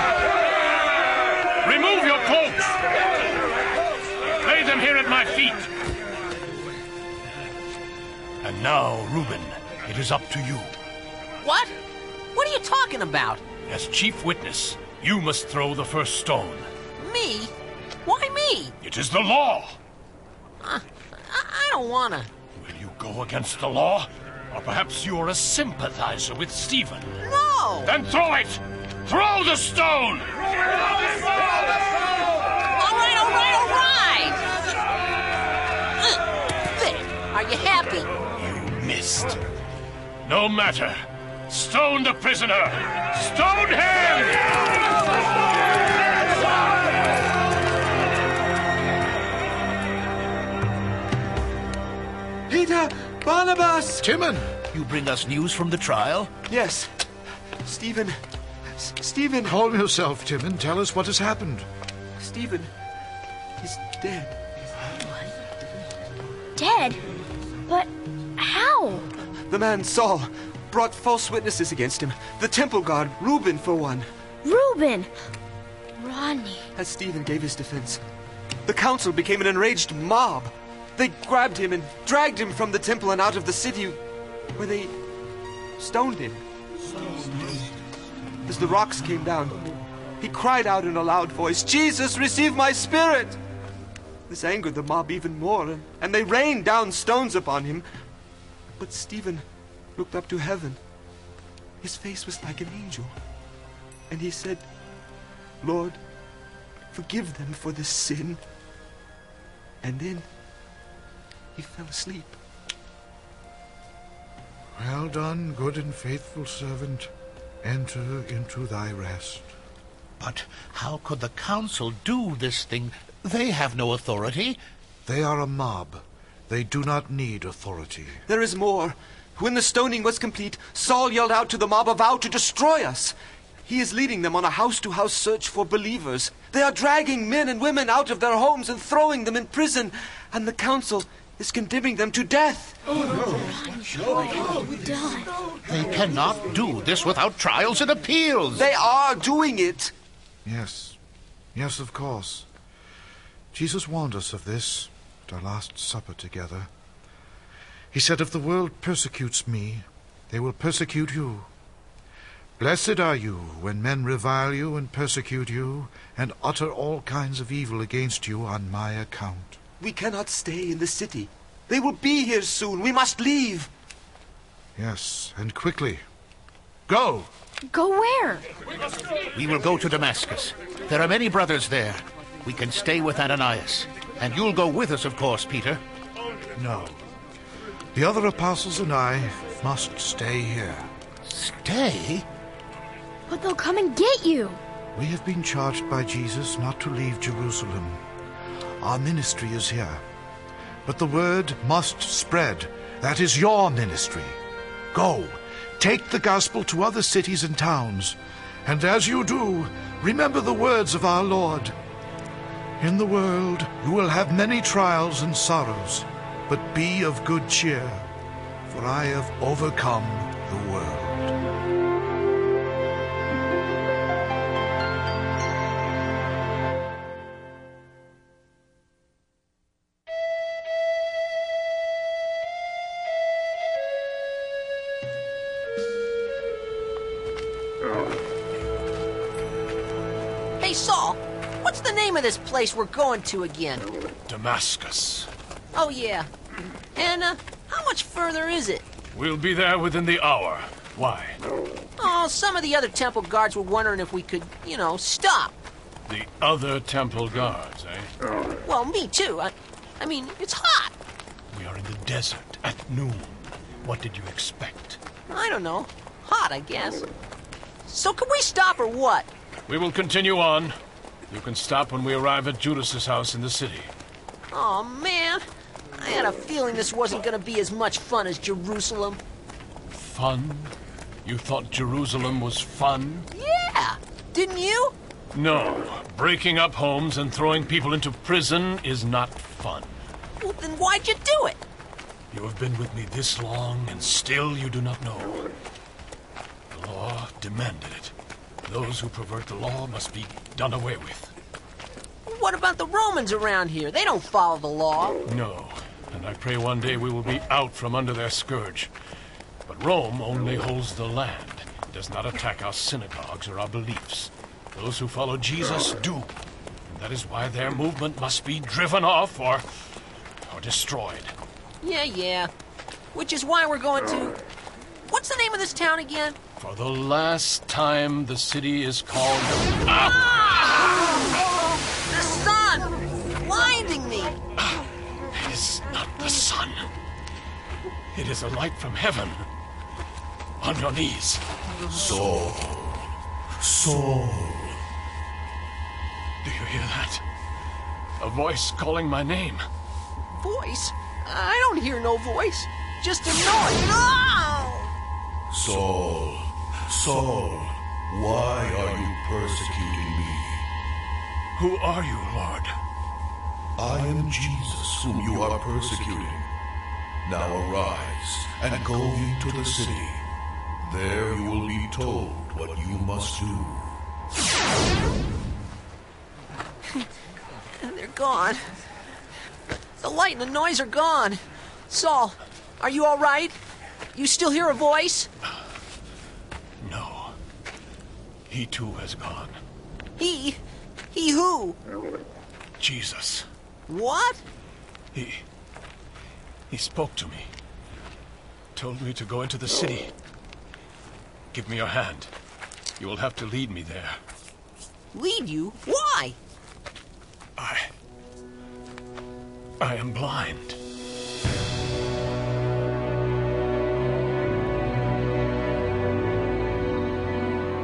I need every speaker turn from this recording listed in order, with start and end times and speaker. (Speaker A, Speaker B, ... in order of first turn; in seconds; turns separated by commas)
Speaker A: 1.6-2.8, Speaker A: 4.4-5.7, Speaker A: 8.4-10.7, Speaker B: 11.4-11.7, Speaker B: 12.3-13.4, Speaker A: 13.7-16.7, Speaker B: 17.0-17.5, Speaker B: 18.1-18.8, Speaker A: 18.8-19.8, Speaker B: 20.6-22.3, Speaker A: 22.6-27.2, Speaker B: 27.2-27.9, Speaker A: 27.8-30.3, Speaker B: 32.8-34.4, Speaker B: 36.0-38.1, Speaker A: 38.4-39.4, Speaker A: 40.2-44.7, Speaker C: 52.5-54.0, Speaker D: 54.0-56.3, Speaker C: 56.5-56.9, Speaker C: 57.6-58.1, Speaker C: 58.8-59.5, Speaker E: 59.4-61.7, Speaker C: 62.2-62.7, Speaker C: 63.6-64.3, Speaker F: 66.5-67.0, Speaker F: 67.7-69.1, Speaker C: 69.5-74.1, Speaker F: 74.4-75.1, Speaker F: 76.0-76.7, Speaker C: 76.8-78.0, Speaker C: 78.7-84.0, Speaker C: 84.5-84.9, Speaker C: 85.8-86.4, Speaker C: 88.5-89.6, Speaker C: 90.2-93.4, Speaker C: 94.3-97.8, Speaker C: 98.8-99.4, Speaker C: 100.0-100.8, Speaker C: 101.8-103.1, Speaker C: 104.1-104.7, Speaker C: 105.6-106.0, Speaker C: 106.9-108.4, Speaker C: 109.8-110.3, Speaker C: 111.5-112.4, Speaker E: 114.8-117.1, Speaker E: 117.6-119.5, Speaker D: 120.2-124.6, Speaker E: 125.0-128.2, Speaker C: 128.3-133.1, Speaker C: 133.7-142.8, Speaker F: 143.3-145.3, Speaker D: 145.7-148.7, Speaker C: 148.6-149.9, Speaker E: 150.4-151.0, Speaker E: 151.5-152.5, Speaker E: 153.5-156.7, Speaker E: 157.9-161.5, Speaker E: 162.6-169.6, Speaker C: 169.8-173.7, Speaker E: 174.8-176.0, Speaker E: 176.9-177.3, Speaker F: 177.7-178.4, Speaker D: 179.3-185.8, Speaker E: 186.6-187.0, Speaker E: 187.9-190.9, Speaker D: 191.2-192.2, Speaker F: 193.3-194.6, Speaker E: 194.9-198.0, Speaker E: 198.8-200.0, Speaker E: 200.8-204.4, Speaker E: 204.9-211.8, Speaker E: 212.8-218.1, Speaker E: 218.7-221.3, Speaker B: 240.6-243.9, Speaker A: 244.3-245.3, Speaker B: 245.8-246.3, Speaker B: 247.0-248.8, Speaker A: 249.1-251.4, Speaker B: 252.0-255.6, Speaker A: 256.1-258.1, Speaker B: 258.6-260.9, Speaker A: 261.5-265.0, Speaker B: 265.3-267.1, Speaker B: 267.9-269.3, Speaker A: 269.7-270.8, Speaker A: 271.3-273.9, Speaker B: 274.5-275.4, Speaker B: 276.0-279.2, Speaker A: 279.9-280.7, Speaker A: 281.2-283.3, Speaker B: 283.3-284.9, Speaker A: 285.3-290.0, Speaker B: 290.4-291.6, Speaker A: 292.3-295.4, Speaker A: 296.7-298.1, Speaker A: 298.6-301.3, Speaker B: 302.2-305.2, Speaker A: 305.3-308.9, Speaker A: 309.7-316.3, Speaker A: 316.9-319.6, Speaker A: 320.5-321.3, Speaker B: 321.8-322.5, Speaker B: 323.1-324.4, Speaker B: 325.1-326.4, Speaker A: 326.6-330.1, Speaker B: 329.9-331.0, Speaker B: 332.1-334.3, Speaker A: 335.3-336.9, Speaker A: 338.1-339.5, Speaker A: 340.6-341.4, Speaker G: 341.9-344.8, Speaker A: 346.4-347.2, Speaker A: 348.2-349.6, Speaker B: 350.4-354.9, Speaker G: 355.5-360.6, Speaker A: 361.6-362.7, Speaker G: 363.8-366.5, Speaker G: 367.2-370.3, Speaker G: 370.8-374.0, Speaker B: 377.8-378.6, Speaker B: 380.0-383.5, Speaker B: 384.1-385.3, Speaker A: 386.8-387.3, Speaker A: 388.5-389.6, Speaker B: 390.2-390.6, Speaker B: 391.1-391.8, Speaker A: 392.8-393.5, Speaker B: 393.9-394.4, Speaker A: 395.1-395.4, Speaker A: 396.7-397.5, Speaker A: 398.8-400.1, Speaker A: 401.5-402.3, Speaker A: 403.0-404.2, Speaker B: 405.1-406.4, Speaker A: 407.6-407.9, Speaker A: 409.8-410.8